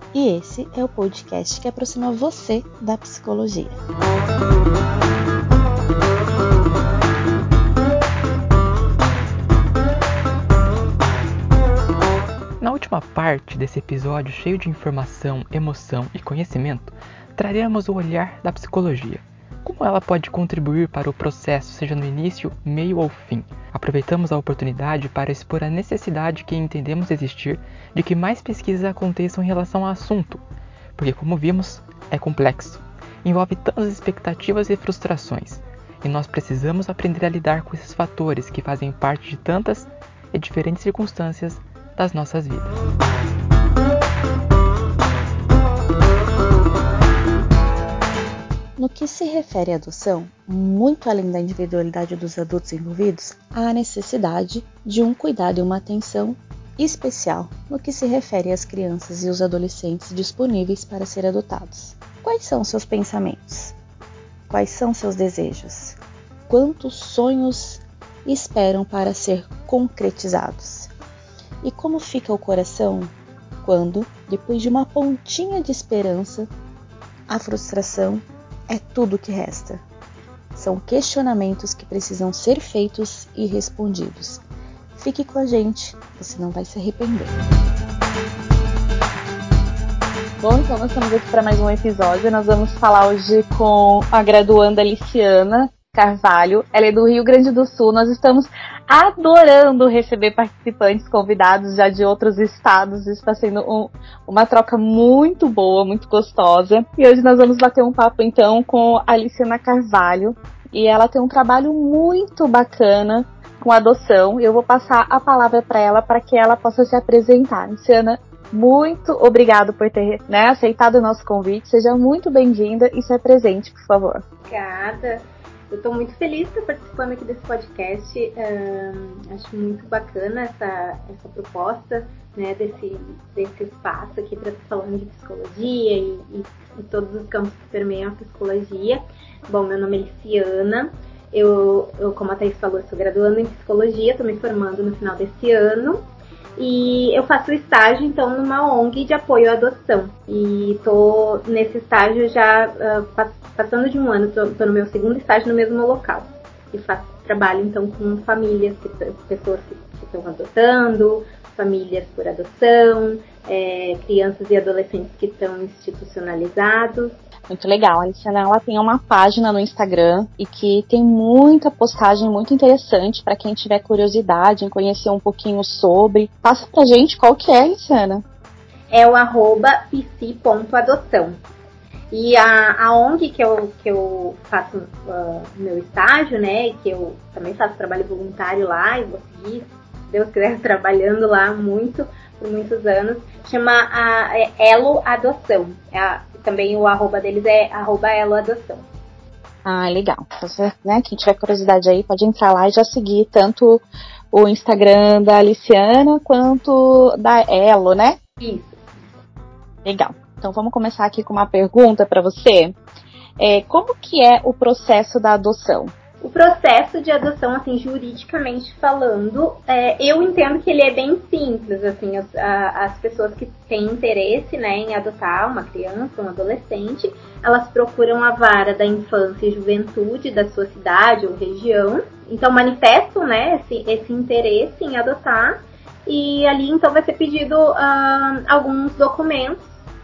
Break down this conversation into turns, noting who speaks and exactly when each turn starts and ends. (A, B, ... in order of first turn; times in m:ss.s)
0:00.1-0:03.8 A
0:12.6-0:30.4 B
0:31.0-0:42.8 B
0:48.8-1:03.8 A
1:04.5-1:06.0 A
1:06.5-1:10.9 A
1:11.6-1:16.5 A
1:17.3-1:19.8 A
1:20.5-1:24.4 A
1:25.0-1:27.3 A
1:30.4-2:04.2 A
2:04.5-2:26.0 C
2:26.6-2:47.1 C
2:47.5-2:58.2 A
2:58.9-3:01.4 C
3:02.1-3:18.8 C
3:19.6-3:28.2 A
3:28.4-3:28.8 C
3:29.8-3:32.7 A
3:33.4-3:35.9 A
3:36.2-3:59.6 C